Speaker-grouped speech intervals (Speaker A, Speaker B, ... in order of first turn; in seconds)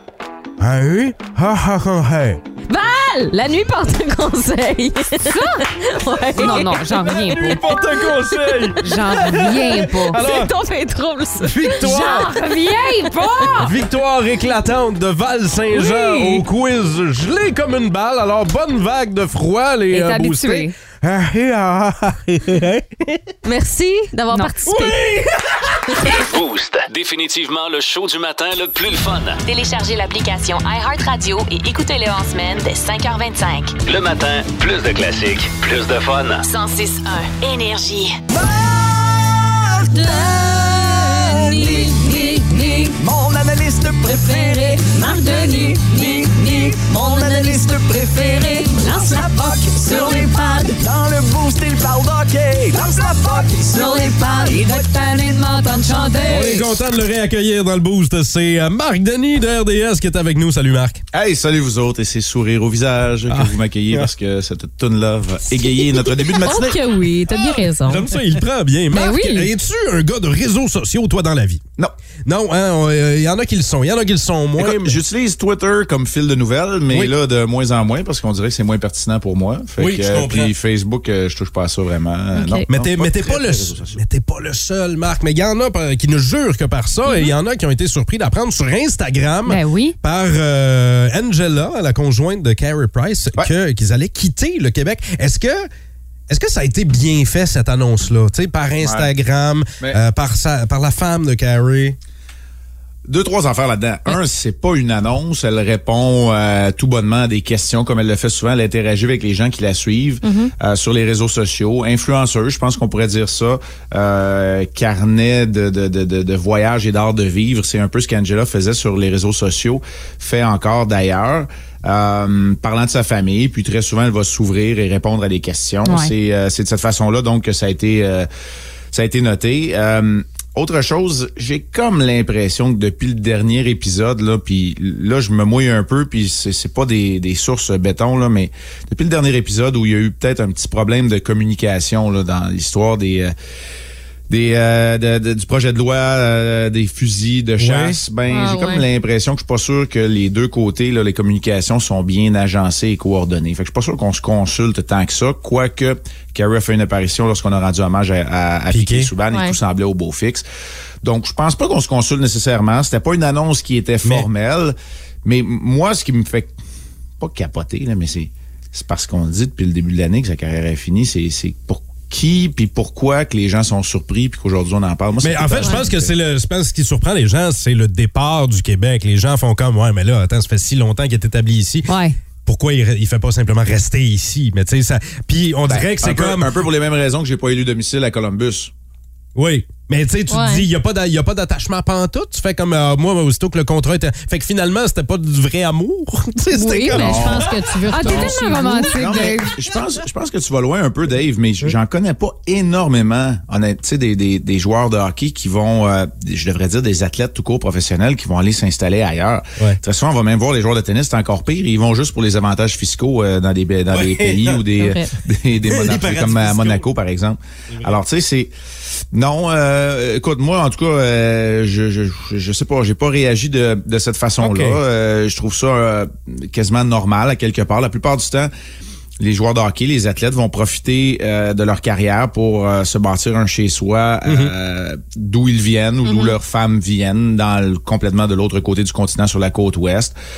Speaker A: 0.6-2.4, 6.4-10.5, 11.4-12.4, 13.6-23.3, 24.7-26.1, 56.3-61.0, 63.3-64.1, 67.3-71.6, 72.3-75.0, 79.8-80.5, 82.7-95.7, 96.3-102.0, 147.6-148.0, 158.7-159.1, 175.2-181.9, 182.5-186.5, 189.4-198.1, 213.9-214.7, 215.7-216.8, 217.7-218.0, 224.4-224.8, 234.3-234.5
Speaker B: 2.7-8.7, 10.1-13.5, 23.4-25.1, 39.9-43.0, 44.9-48.7, 49.9-50.7, 66.0-68.1, 82.3-82.7, 110.2-110.5, 148.3-148.9, 159.3-159.6, 190.3-190.7, 196.5-199.0, 214.8-215.1, 236.1-236.4
Speaker C: 5.2-5.7, 6.4-7.6, 8.8-10.2, 11.8-13.7, 15.7-16.4, 19.9-20.7, 68.9-69.5, 89.5-90.0, 125.8-126.1, 181.9-182.2, 197.9-199.6
Speaker D: 26.0-29.4, 33.8-36.5
Speaker E: 29.5-33.8, 36.5-38.2
Speaker F: 38.4-56.8
Speaker G: 61.1-66.8, 74.6-84.0, 98.8-99.1, 103.1-128.3, 128.9-143.3, 144.3-160.4, 161.0-166.5, 167.2-176.1, 185.7-188.7, 196.9-197.5, 198.1-198.4, 198.9-218.5, 219.1-228.5, 229.2-240.2